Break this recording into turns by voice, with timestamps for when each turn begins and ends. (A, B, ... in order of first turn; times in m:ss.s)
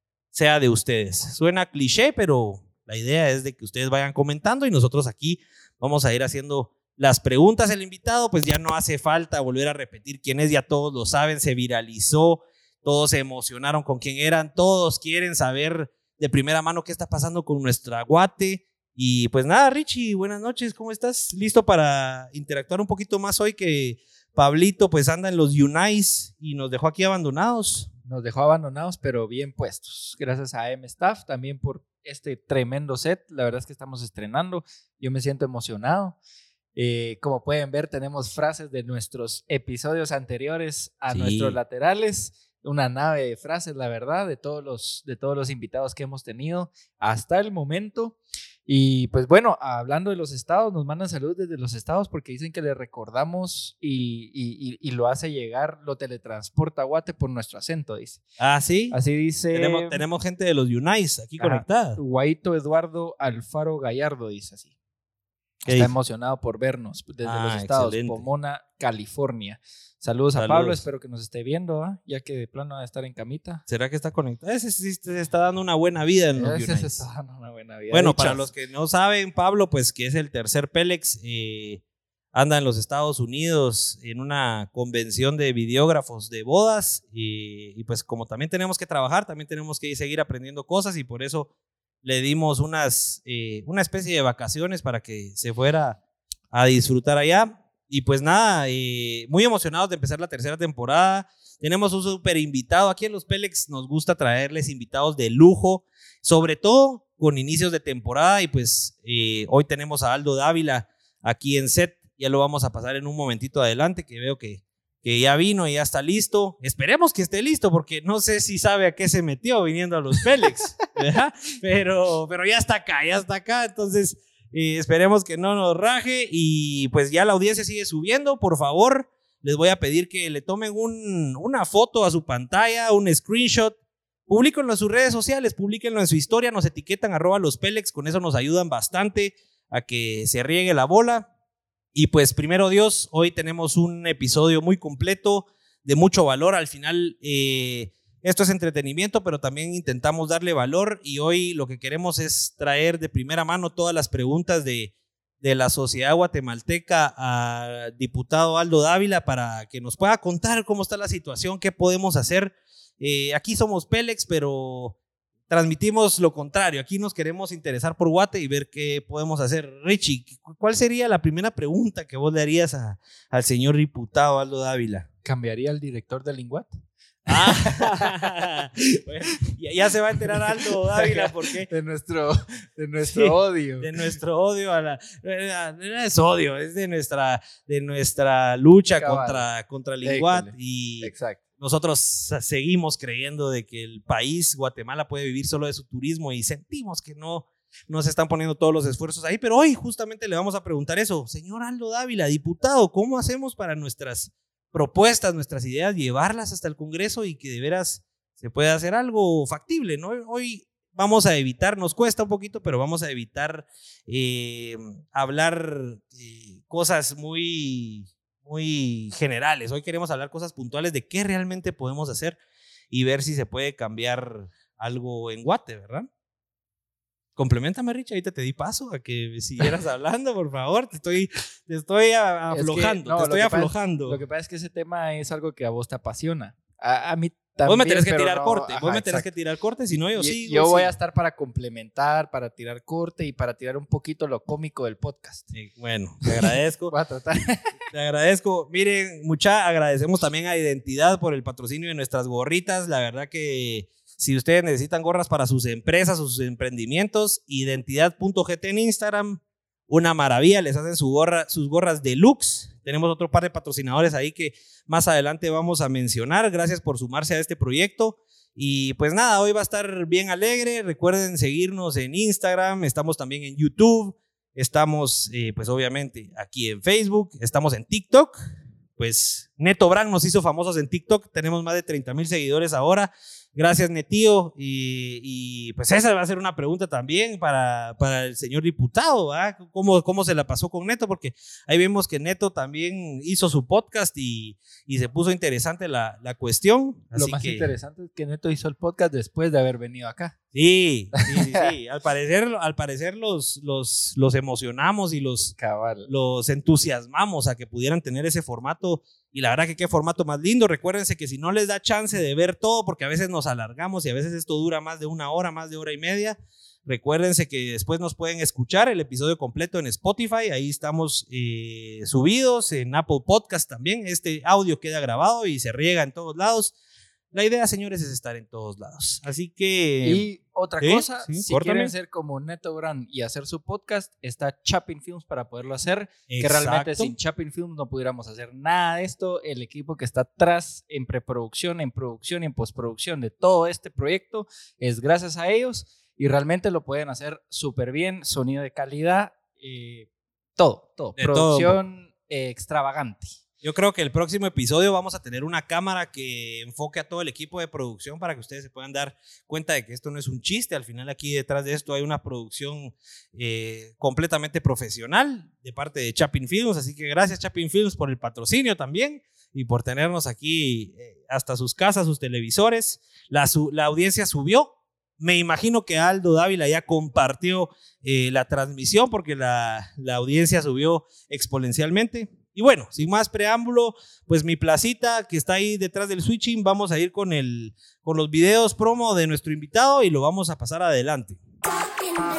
0:00.3-0:27.9 A
0:28.1-0:36.2 B
0:36.8-0:58.2 B
0:41.1-0:41.6 A
0:58.4-0:59.0 A
0:58.9-1:00.0 B
0:59.5-1:02.0 A
1:01.4-1:04.7 B
1:05.6-1:05.9 A
1:05.7-1:13.6 B
1:07.2-1:08.3 A
1:10.3-1:10.8 A
1:13.7-1:17.0 A
1:16.4-1:18.5 B
1:17.9-1:21.8 A
1:22.3-1:31.5 A
1:32.0-1:36.0 A
1:36.5-2:13.8 A
2:14.3-2:21.3 A
2:21.9-2:44.9 A
2:45.5-2:55.1 A
2:55.2-2:58.3 B
2:57.3-3:01.7 A
3:00.3-3:04.1 B
3:03.0-3:42.4 A
3:09.0-3:09.4 B
3:10.0-3:11.4 B
3:42.9-3:46.1 A
3:47.4-3:54.2 A
3:52.5-3:59.3 B
3:57.7-4:00.9 A
4:00.2-4:05.5 B
4:05.5-4:06.9 A
4:06.2-4:07.7 B
4:07.9-4:38.4 A
4:39.0-4:57.7 A
4:57.1-5:00.4 B
5:00.5-5:05.6 A
5:01.2-5:01.6 B
5:05.6-5:06.1 B
5:06.1-5:26.7 A
5:27.3-5:30.3 A
5:30.0-5:53.4 B
5:30.8-5:31.9 A
5:36.3-5:37.1 A
5:51.2-5:51.8 A
5:53.6-6:31.4 A